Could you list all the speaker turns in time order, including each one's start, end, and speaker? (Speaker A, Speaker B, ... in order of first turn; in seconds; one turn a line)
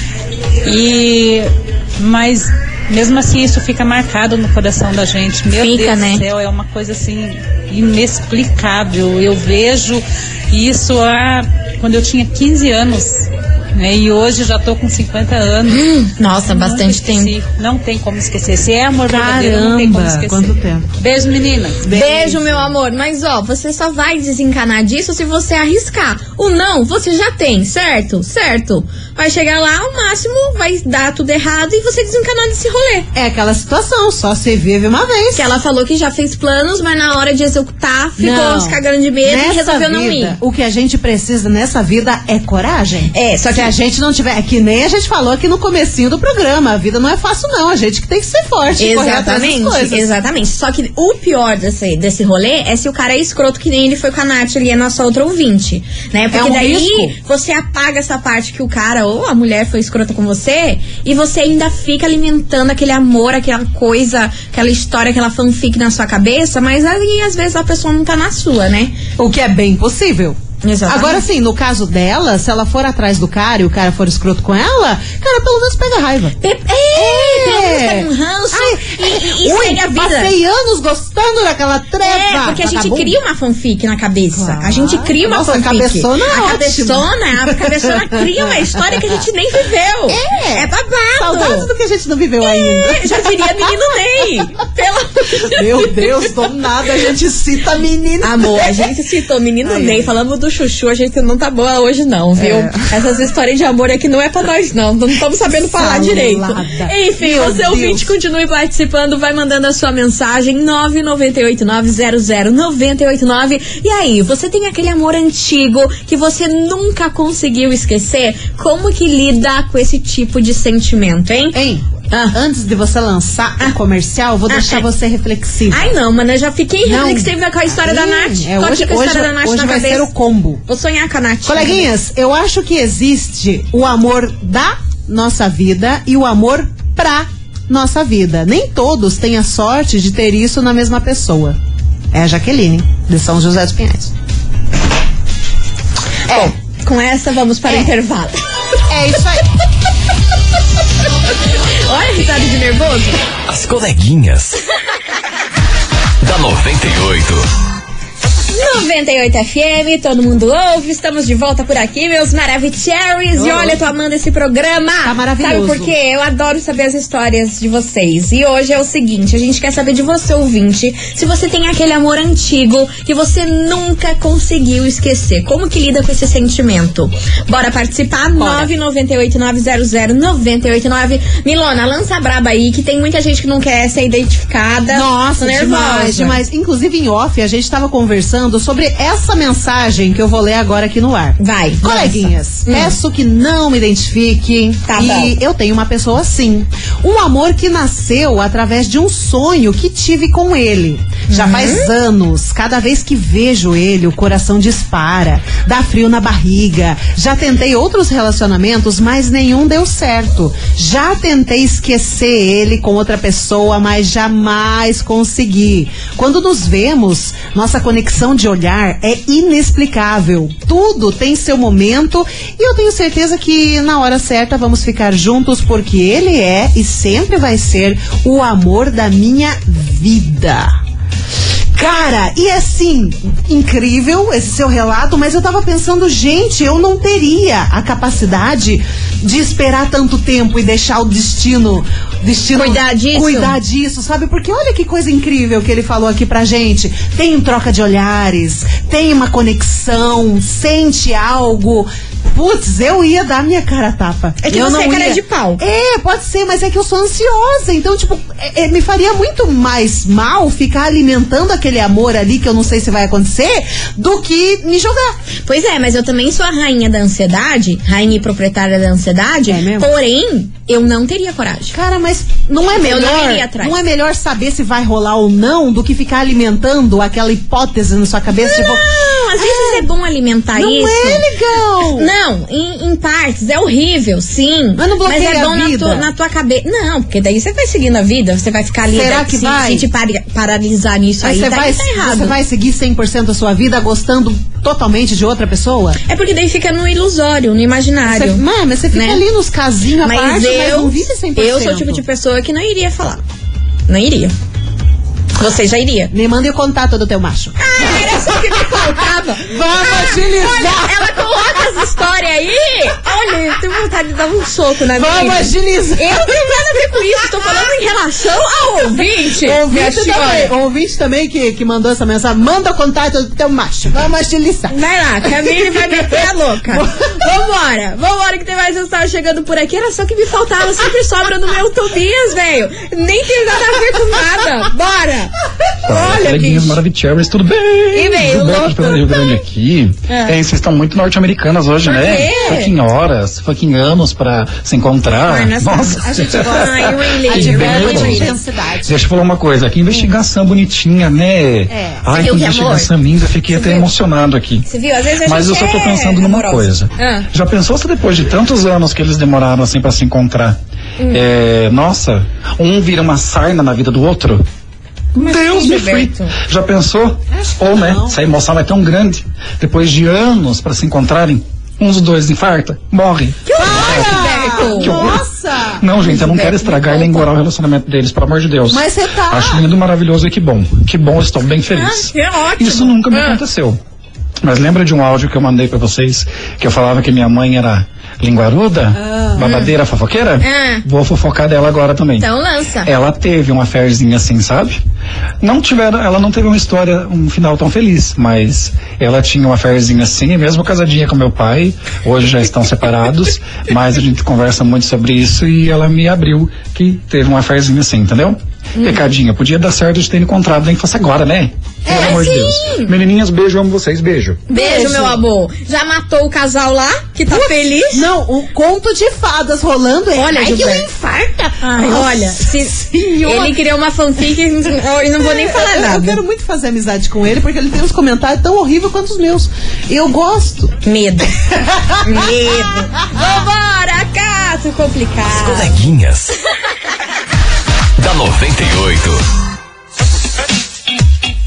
Speaker A: 0.6-15.9
Speaker B: 5.5-6.2
Speaker B: 15.7-17.3
Speaker A: 16.4-21.8
Speaker C: 19.1-20.9
Speaker C: 21.8-22.7
Speaker B: 21.9-33.1
Speaker C: 33.1-35.5
Speaker B: 35.4-40.4
Speaker C: 38.2-50.1
Speaker B: 43.1-43.7
Speaker B: 48.8-69.0
Speaker C: 56.3-57.1
Speaker C: 69.2-76.3
Speaker B: 70.6-71.2
Speaker B: 76.4-80.3
Speaker C: 76.9-83.2
Speaker B: 82.0-91.7
Speaker C: 84.3-89.2
Speaker C: 90.1-93.7
Speaker B: 92.4-96.3
Speaker C: 95.5-98.9
Speaker B: 98.2-121.6
Speaker C: 99.6-100.1
Speaker C: 102.3-102.9
Speaker C: 105.6-108.1
Speaker C: 121.5-125.8
Speaker B: 122.1-122.3
Speaker B: 124.5-124.9
Speaker B: 125.7-130.1
Speaker C: 126.8-130.6
Speaker B: 130.7-131.9
Speaker C: 131.4-141.6
Speaker C: 142.1-144.1
Speaker C: 146.3-146.5
Speaker B: 146.3-148.4
Speaker C: 147.7-147.9
Speaker C: 148.9-149.4
Speaker B: 151.8-153.2
Speaker D: 153.5-154.6
Speaker D: 156.2-157.4
Speaker B: 158.5-186.4
Speaker C: 163.3-163.8
Speaker C: 165.0-165.9
Speaker C: 178.3-178.7
Speaker C: 184.9-230.8
Speaker B: 191.4-192.9
Speaker B: 194.8-195.3
Speaker B: 201.3-201.9
Speaker C: 231.7-265.1
Speaker B: 242.5-243.6
Speaker B: 254.4-255.6
Speaker B: 265.4-271.8
Speaker C: 269.5-269.9
Speaker C: 271.7-279.9
Speaker B: 272.7-273.8
Speaker B: 278.3-281.2
Speaker C: 280.5-282.1
Speaker B: 281.8-292.3
Speaker C: 284.8-286.1
Speaker C: 288.9-289.9
Speaker C: 291.2-296.0
Speaker B: 296.1-299.2
Speaker C: 298.0-302.0
Speaker B: 300.0-303.2
Speaker B: 303.9-304.3
Speaker B: 305.4-306.1
Speaker C: 306.1-311.8
Speaker B: 307.6-320.5
Speaker C: 314.9-317.7
Speaker C: 319.0-327.3
Speaker B: 324.7-335.3
Speaker E: 335.9-348.3
Speaker B: 335.9-336.8
Speaker B: 337.9-339.4
Speaker B: 340.1-340.4
Speaker B: 341.8-342.7
Speaker B: 345.2-348.4
Speaker C: 346.1-349.0
Speaker E: 348.8-354.7
Speaker C: 351.7-352.1
Speaker B: 352.1-352.9
Speaker B: 353.5-353.9
Speaker B: 354.7-357.3
Speaker E: 355.2-360.6
Speaker E: 361.1-364.4
Speaker E: 365.1-375.2
Speaker B: 365.2-366.4
Speaker C: 367.3-368.2
Speaker B: 373.4-375.1
Speaker C: 373.6-375.8
Speaker E: 375.8-383.8
Speaker B: 376.0-377.3
Speaker C: 378.7-379.6
Speaker B: 381.7-383.4
Speaker E: 384.4-392.3
Speaker C: 388.9-389.5
Speaker B: 389.4-389.8
Speaker B: 390.4-390.8
Speaker B: 392.2-392.9
Speaker E: 392.8-394.8
Speaker E: 395.4-414.4
Speaker C: 411.9-412.2
Speaker B: 411.9-412.9
Speaker B: 414.5-418.1
Speaker C: 414.5-415.2
Speaker C: 417.3-423.6
Speaker B: 420.1-420.9
Speaker B: 421.6-426.2
Speaker C: 425.2-430.8
Speaker B: 430.8-431.3
Speaker C: 431.4-432.3
Speaker B: 432.0-435.8
Speaker D: 435.2-436.3
Speaker D: 438.0-439.2